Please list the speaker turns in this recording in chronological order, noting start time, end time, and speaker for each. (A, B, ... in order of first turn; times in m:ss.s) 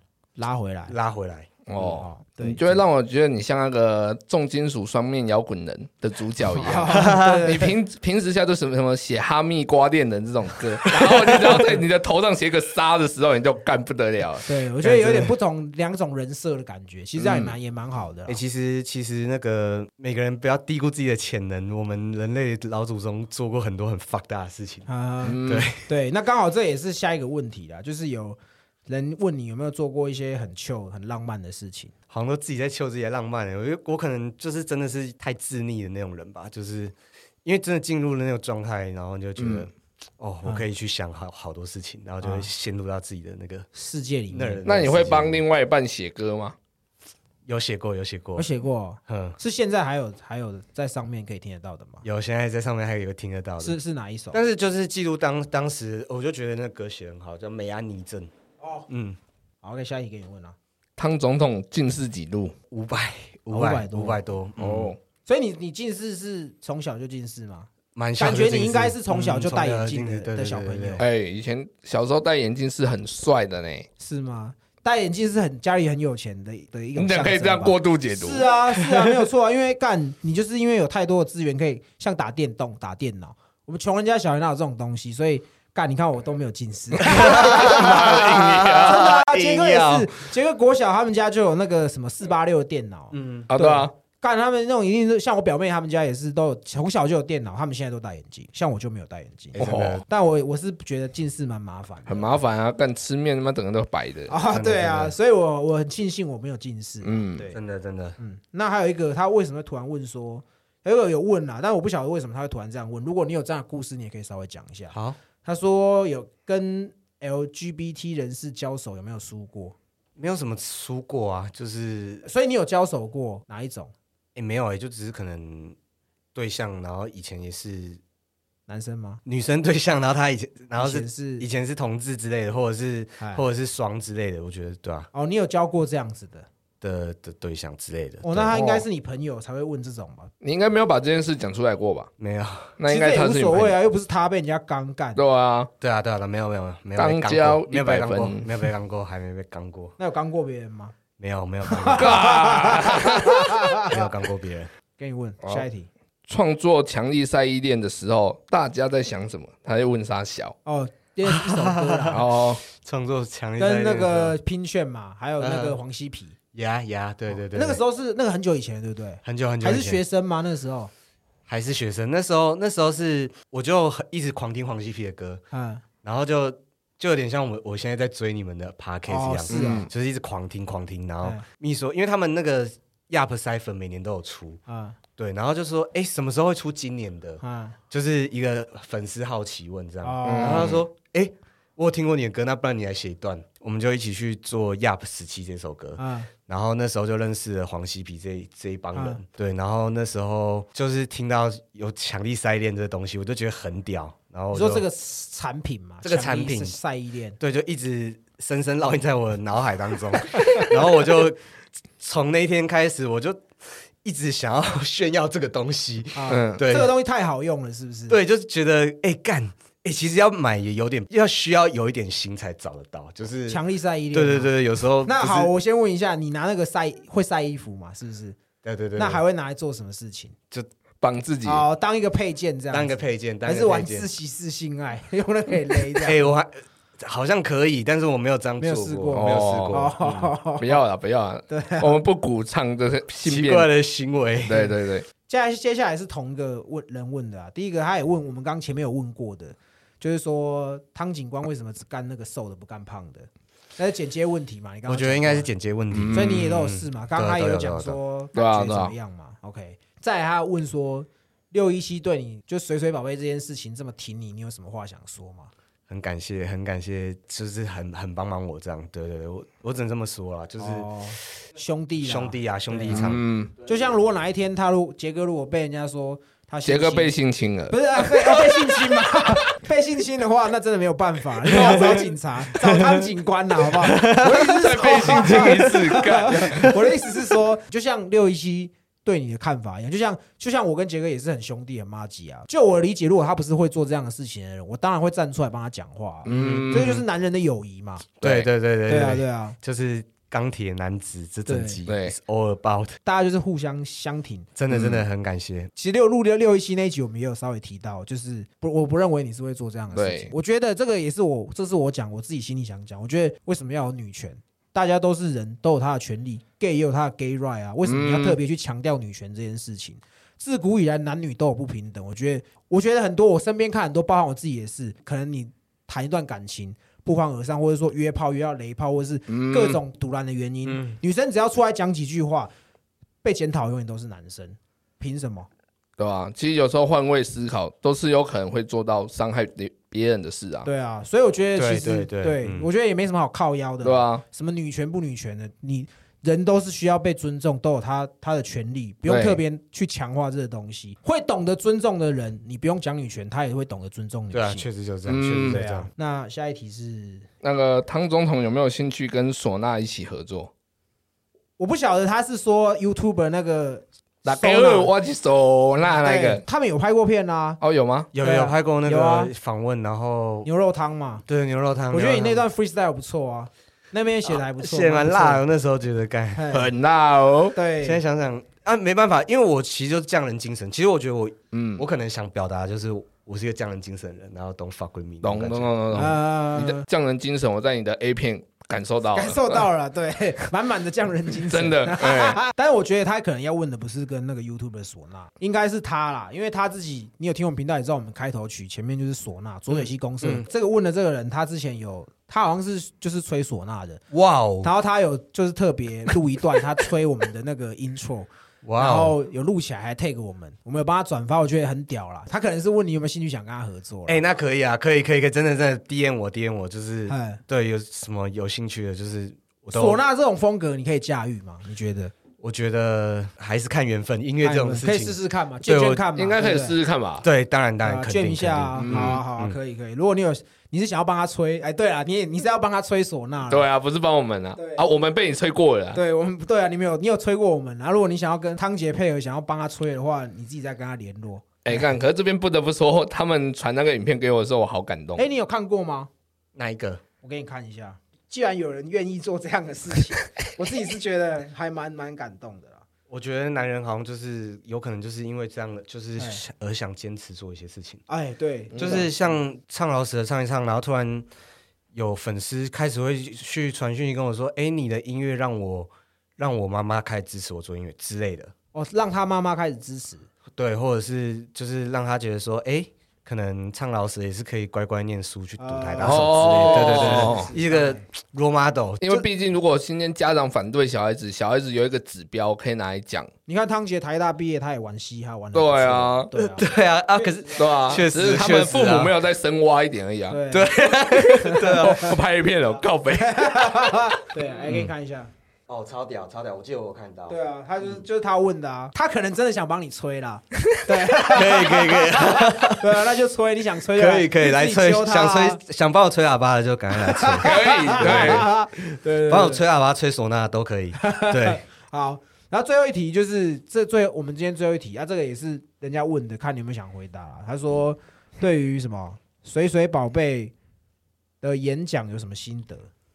0:00.4-0:00.9 A
0:00.9-0:01.9 B
0:01.7-0:14.5 C
0:01.8-0:02.8 A
0:06.6-0:07.7 A
0:06.9-0:07.4 B
0:11.0-0:11.6 B
0:14.4-0:18.4 A
0:14.8-0:15.3 B
0:17.2-0:17.5 C
0:18.3-0:24.9 B
0:24.9-0:31.9 A
0:25.2-0:25.7 C
0:25.4-0:25.9 B
0:32.1-0:36.9 B
0:37.4-0:43.7 B
0:39.4-0:39.7 C
0:42.2-0:42.5 A
0:43.7-0:44.6 A
0:44.3-0:45.4 B
0:44.6-0:46.6 C
0:47.4-0:48.5 B
0:48.4-0:52.0 A
0:49.1-0:49.4 B
0:52.0-0:53.8 B
0:53.6-0:54.4 A
0:54.3-0:58.3 B
0:58.6-0:58.8 A
0:58.9-0:59.2 B
0:59.6-1:00.6 A
1:01.0-1:02.5 C
1:02.7-1:04.9 B
1:03.5-1:04.2 A
1:04.6-1:05.0 C
1:05.2-1:11.0 A
1:07.9-1:11.0 B
1:11.0-1:13.9 C
1:14.0-1:42.4 A
1:17.0-1:18.9 C
1:27.0-1:30.1 B
1:27.1-1:29.0 C
1:33.1-1:33.5 B
1:33.5-1:33.9 C
1:39.5-1:40.0 B
1:39.6-1:40.0 C
1:42.1-1:45.1 C
1:44.3-1:47.5 A
1:47.0-1:47.5 C
1:47.5-1:48.2 B
1:48.2-1:59.8 A
1:54.9-1:55.2 B
2:00.2-2:02.2 B
2:02.2-2:03.9 A
2:04.3-2:05.8 B
2:06.3-2:08.0 B
2:08.7-2:09.2 A
2:09.2-2:15.1 B
2:10.8-2:11.4 A
2:13.2-2:13.4 A
2:15.1-2:16.5 A
2:16.8-2:18.6 B
2:18.2-2:20.3 A
2:18.5-2:18.8 C
2:20.4-2:22.1 C
2:22.2-2:22.8 B
2:22.8-2:23.8 C
2:22.9-2:25.2 A
2:25.2-2:25.7 C
2:25.8-2:29.9 B
2:27.0-2:28.6 C
2:30.0-2:30.9 A
2:31.2-2:33.0 B
2:31.7-2:34.0 A
2:31.9-2:33.5 C
2:33.8-2:34.7 B
2:35.0-2:35.9 A
2:36.3-2:40.5 C
2:40.6-2:42.2 A
2:41.3-2:44.4 B
2:42.1-2:42.6 C
2:43.6-2:46.4 A
2:45.4-2:45.8 B
2:46.5-2:47.8 B
2:47.4-2:50.9 A
2:49.2-2:50.0 B
2:51.5-2:55.4 B
2:55.5-2:55.8 A
2:56.0-3:04.6 B
2:59.1-2:59.9 A
2:59.5-2:59.9 C
3:04.7-3:05.0 A
3:05.2-3:24.8 B
3:07.4-3:07.8 A
3:10.0-3:10.8 A
3:10.2-3:10.8 C
3:16.0-3:16.3 A
3:18.9-3:19.2 A
3:24.5-3:27.4 A
3:26.0-3:26.8 B
3:27.4-3:31.4 B
3:32.0-3:36.9 B
3:36.1-3:38.2 A
3:36.3-3:36.6 C
3:38.1-3:43.6 B
3:43.5-3:44.5 A
3:44.1-3:45.5 B
3:45.0-3:48.4 A
3:48.6-3:49.2 B
3:49.0-3:50.4 A
3:51.0-3:51.6 C
3:51.4-3:56.2 A
3:52.7-3:54.1 B
3:56.0-4:00.3 B
3:58.6-4:00.8 A
3:59.1-3:59.8 C
4:00.6-4:03.7 C
4:01.5-4:02.0 A
4:03.2-4:04.7 B
4:04.4-4:05.0 C
4:05.3-4:15.5 A
4:14.9-4:18.0 B
4:15.9-4:16.5 C
4:16.1-4:25.5 A
4:18.3-4:18.9 C
4:25.9-4:31.4 B
4:30.6-4:33.0 A
4:32.0-4:33.2 B
4:32.9-4:33.5 C
4:33.6-4:37.1 A
4:36.6-4:39.4 C
4:37.7-4:58.1 A
4:41.5-4:42.0 B
4:42.6-4:43.0 B
4:43.8-4:45.9 B
4:44.3-4:46.8 C
4:46.5-4:46.9 B
4:56.2-4:57.0 C
4:56.3-4:57.0 B
4:58.2-5:03.0 B
4:58.2-4:58.5 C
4:58.9-4:59.6 A
5:01.5-5:01.8 A
5:01.8-5:02.1 C
5:03.0-5:04.5 A
5:04.6-5:05.7 B
5:04.7-5:05.0 C
5:05.8-5:32.5 A
5:09.9-5:10.3 C
5:17.8-5:18.4 C
5:29.3-5:29.8 C
5:30.7-5:30.9 B
5:33.2-5:35.5 A
5:36.0-5:40.7 C
5:40.6-5:54.6 A
5:41.6-5:42.7 B
5:43.8-5:44.2 C
5:49.0-5:49.4 C
5:54.3-5:55.9 B
5:55.1-5:55.6 C
5:55.4-5:57.3 A
5:57.4-6:00.5 C
6:01.6-6:04.9 A
6:04.2-6:06.4 C
6:05.9-6:07.6 A
6:07.6-6:08.1 C
6:08.1-6:10.5 B
6:08.2-6:09.3 A
6:10.4-6:11.2 A
6:11.2-6:12.5 B
6:11.9-6:15.4 A
6:14.2-6:16.4 B
6:16.3-6:16.7 A
6:16.5-6:17.6 C
6:17.5-6:18.0 A
6:17.8-6:26.0 B
6:21.5-6:21.8 C
6:25.2-6:29.6 C
6:25.9-6:26.8 A
6:29.1-6:44.0 A
6:31.5-6:32.4 C
6:39.7-6:40.4 B
6:44.1-6:44.7 B
6:44.6-6:54.2 A
6:48.6-6:49.2 B
6:54.1-7:00.0 B
6:57.1-6:57.4 A
6:59.7-7:02.1 A
7:02.4-7:06.0 B
7:04.4-7:06.8 A
7:06.1-7:07.3 C
7:07.2-7:09.6 B
7:07.8-7:13.7 A
7:08.8-7:09.2 C
7:13.5-7:16.0 C
7:14.6-7:14.8 A
7:15.9-7:21.9 A
7:21.6-7:25.2 C
7:25.2-7:26.1 A
7:26.5-7:27.0 B
7:27.2-7:32.8 A
7:33.1-7:38.0 B
7:36.2-7:36.4 A
7:38.1-7:39.1 A
7:38.7-7:41.3 B
7:41.9-7:48.5 B
7:48.7-7:50.3 A
7:50.5-7:59.3 B
7:55.6-7:58.0 A
7:56.0-7:57.5 C
7:59.0-8:03.3 C
8:03.5-8:07.6 A
8:05.5-8:06.3 C
8:06.4-8:09.1 B
8:07.6-8:10.4 C
8:10.3-8:12.1 A
8:10.5-8:12.1 B
8:11.0-8:14.0 C
8:13.2-8:15.3 A
8:15.7-8:18.0 B
8:17.3-8:25.6 A
8:21.1-8:23.0 B
8:23.9-8:28.5 B
8:27.0-8:29.6 A
8:27.4-8:28.5 C
8:29.2-8:31.6 B
8:31.0-8:40.5 A
8:41.4-8:42.9 A